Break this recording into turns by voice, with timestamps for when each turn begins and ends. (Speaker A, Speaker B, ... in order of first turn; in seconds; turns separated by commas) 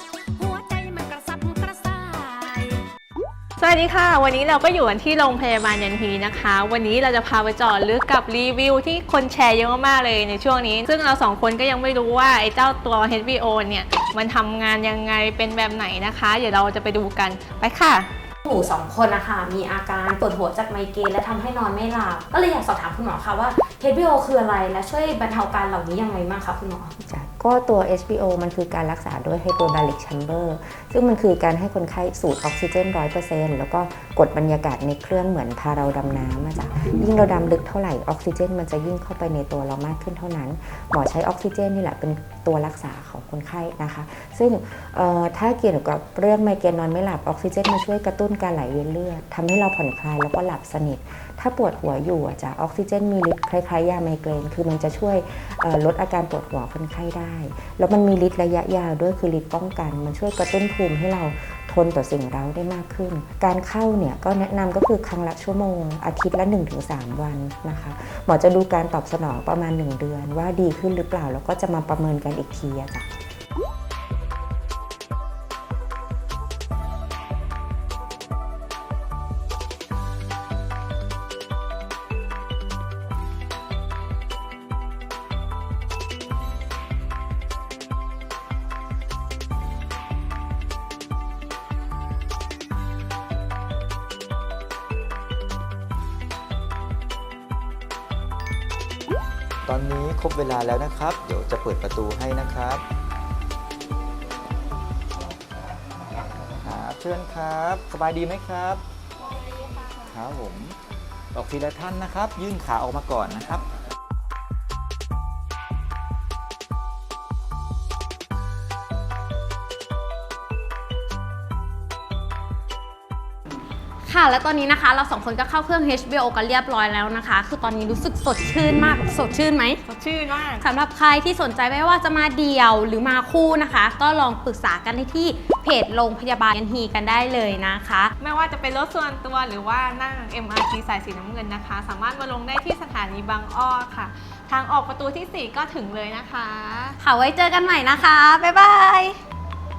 Speaker A: 0.4-2.8, Speaker B: 3.6-18.1, Speaker C: 18.5-26.9, Speaker D: 27.0-73.1, Speaker E: 99.7-102.8, Speaker E: 106.6-108.8, Speaker E: 110.0-110.8, Speaker E: 111.3-113.6, Speaker C: 124.0-129.8, Speaker B: 129.8-130.6, Speaker C: 130.6-138.1, Speaker B: 138.2-147.0, Speaker C: 147.0-149.2